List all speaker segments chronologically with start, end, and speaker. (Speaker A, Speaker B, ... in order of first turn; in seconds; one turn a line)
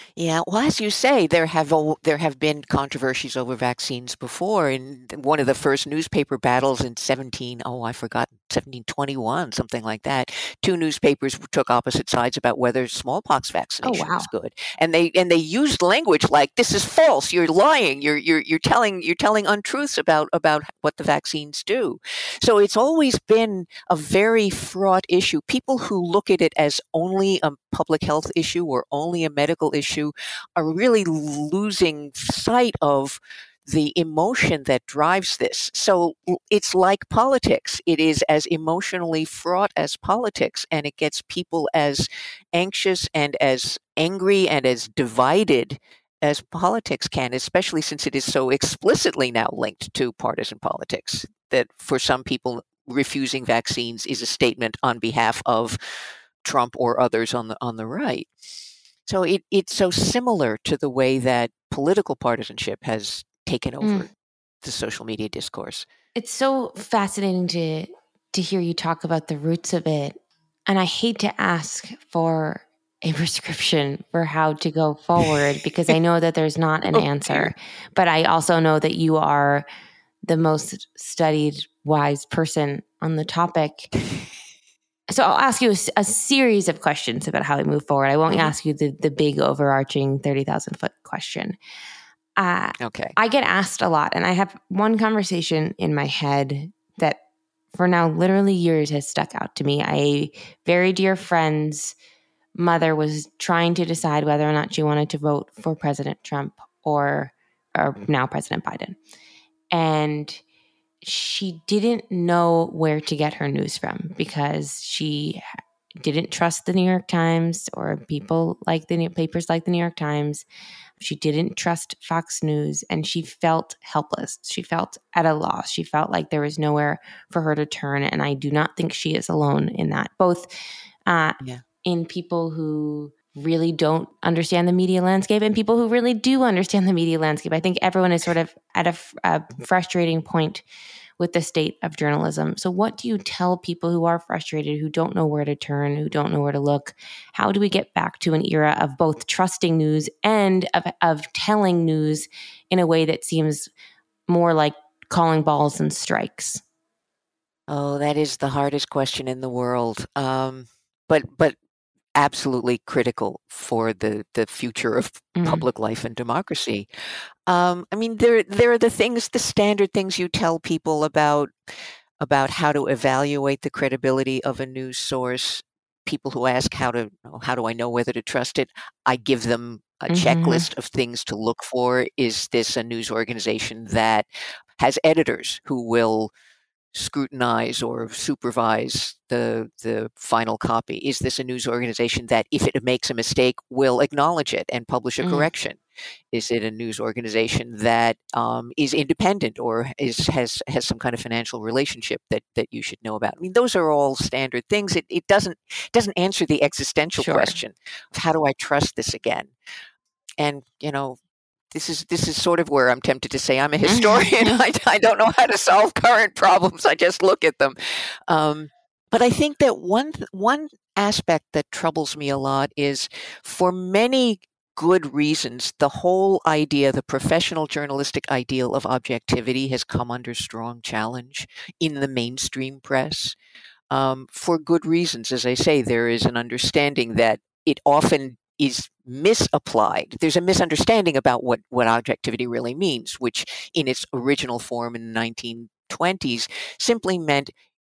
Speaker A: 0.1-55.8
Speaker B: 13.8-14.3
Speaker A: 56.4-58.3
Speaker A: 59.0-64.1
Speaker B: 63.8-64.1
Speaker A: 64.6-65.8
Speaker B: 66.1-70.2
Speaker B: 70.7-79.6
Speaker A: 76.9-77.5
Speaker B: 80.2-83.9
Speaker B: 85.1-91.6
Speaker B: 92.4-97.2
Speaker A: 92.8-93.1
Speaker B: 97.7-101.9
Speaker B: 102.5-109.0
Speaker B: 109.7-110.4
Speaker B: 111.0-115.4
Speaker B: 116.0-120.4
Speaker B: 121.0-130.5
Speaker B: 131.1-140.6
Speaker B: 141.2-153.7
Speaker B: 154.3-156.6
Speaker A: 157.7-161.6
Speaker A: 162.1-166.9
Speaker B: 165.3-165.7
Speaker A: 167.5-171.5
Speaker A: 172.2-184.3
Speaker B: 180.1-180.7
Speaker A: 184.8-186.3
Speaker A: 186.9-195.8
Speaker B: 195.2-195.5
Speaker A: 196.3-209.5
Speaker B: 207.2-207.6
Speaker A: 210.4-211.2
Speaker A: 211.7-217.7
Speaker B: 213.8-214.3
Speaker A: 218.3-233.3
Speaker A: 233.9-247.5